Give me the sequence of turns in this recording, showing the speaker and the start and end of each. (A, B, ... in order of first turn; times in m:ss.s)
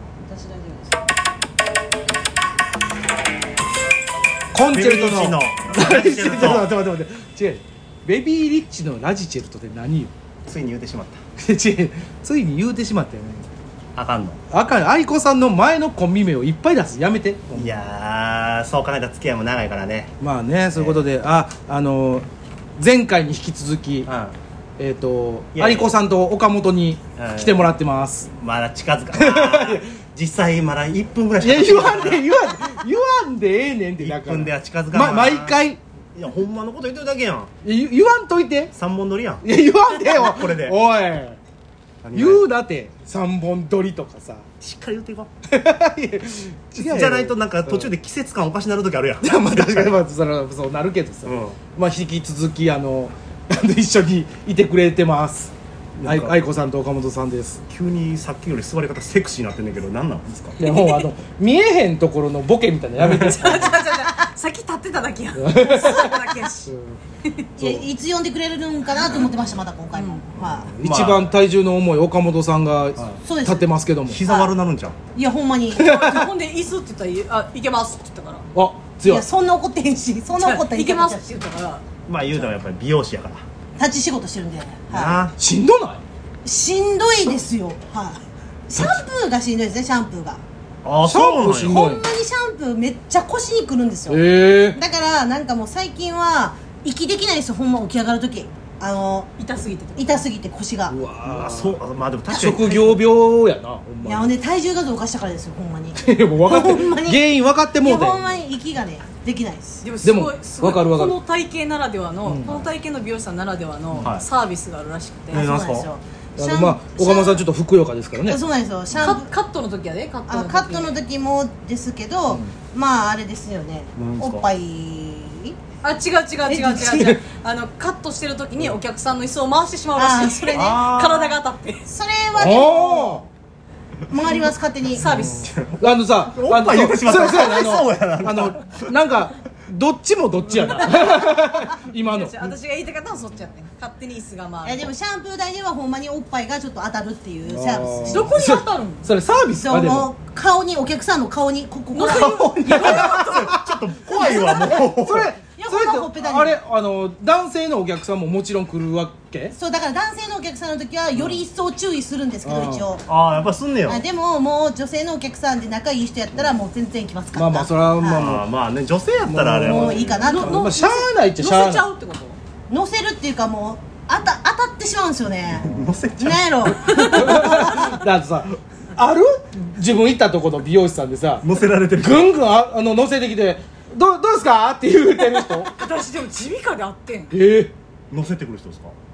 0:00.2-0:01.0 A
0:04.5-0:10.1 B
0:04.7-0:06.7 C
0:10.5-0:11.2 C
0:11.4-0:13.5 B
0:14.0-0:14.4 C
0:14.5-0:17.8 B
0:17.5-0:20.1 C
0:20.2-0:22.3 B
0:20.8-0:21.0 C
0:22.8-0:24.1 B
0:24.1-0:24.4 C
0:24.8-0:28.3 B
0:25.5-0:26.0 C
0:27.2-0:27.7 C
0:28.3-0:32.3 C
0:29.1-0:29.8 B
0:31.4-0:35.8 B
0:34.0-0:35.6 C
0:36.2-0:37.5 C
0:37.6-0:38.7 B
0:38.7-0:39.4 C
0:39.4-0:41.4 B
0:40.1-0:40.8 C
0:42.0-0:42.4 C
0:42.1-0:44.5 B
0:44.6-0:45.3 C
0:45.5-0:47.9 B
0:46.8-0:49.9 C
0:49.2-0:55.5 B
0:51.2-0:51.6 C
0:56.0-0:56.4 C
0:56.0-0:57.6 B
0:57.7-1:00.6 C
1:00.6-1:03.8 B
1:00.7-1:01.1 D
1:03.0-1:03.4 C
1:03.3-1:06.7 D
1:05.4-1:07.0 B
1:07.6-1:07.8 B
1:07.6-1:10.7 A
1:09.9-1:10.2 D
1:10.4-1:14.2 B
1:10.8-1:11.3 C
1:13.2-1:13.7 A
1:14.1-1:15.0 C
1:14.3-1:14.5 A
1:15.1-1:15.9 A
1:15.8-1:16.3 B
1:15.8-1:18.5 D
1:18.5-1:19.2 B
1:19.1-1:21.2 A
1:20.4-1:21.8 D
1:22.1-1:23.4 C
1:23.8-1:25.3 A
1:24.9-1:25.4 C
1:25.4-1:26.0 B
1:26.4-1:30.4 A
1:30.8-1:31.8 C
1:31.0-1:32.0 B
1:31.5-1:39.3 A
1:34.1-1:34.8 B
1:39.4-1:40.2 D
1:40.0-1:41.0 A
1:40.9-1:44.4 B
1:41.2-1:43.0 C
1:44.0-1:47.3 A
1:46.0-1:48.4 B
1:47.8-1:49.8 A
1:49.8-1:55.4 D
1:50.0-1:51.2 B
1:52.3-1:52.5 B
1:53.9-1:54.3 C
1:55.3-1:57.5 A
1:55.3-1:55.9 C
1:56.4-1:58.4 B
1:58.2-1:59.3 A
1:59.0-2:01.0 D
2:00.3-2:05.6 A
2:04.0-2:04.5 C
2:05.8-2:11.9 D
2:06.5-2:07.0 A
2:06.8-2:07.2 B
2:10.0-2:10.6 A
2:10.5-2:11.4 C
2:11.9-2:13.2 A
2:12.4-2:13.2 B
2:14.1-2:15.0 A
2:14.9-2:15.5 D
2:15.0-2:22.5 B
2:15.0-2:18.9 C
2:20.7-2:24.9 D
2:24.6-2:28.4 A
2:27.5-2:30.1 B
2:28.1-2:29.1 D
2:29.6-2:33.1 A
2:31.9-2:33.6 D
2:32.1-2:39.6 B
2:33.0-2:35.3 C
2:35.6-2:36.6 A
2:39.5-2:43.1 A
2:42.4-2:42.9 B
2:43.0-2:44.0 C
2:43.9-2:48.3 A
2:47.3-2:48.6 B
2:48.0-2:50.2 C
2:49.2-2:51.9 B
2:49.7-2:50.7 A
2:50.2-2:52.4 D
2:52.7-2:57.8 A
2:55.6-2:56.5 C
2:56.9-2:57.9 D
2:56.9-3:05.7 B
3:01.4-3:02.3 C
3:05.6-3:07.4 D
3:07.3-3:07.7 B
3:08.1-3:08.9 C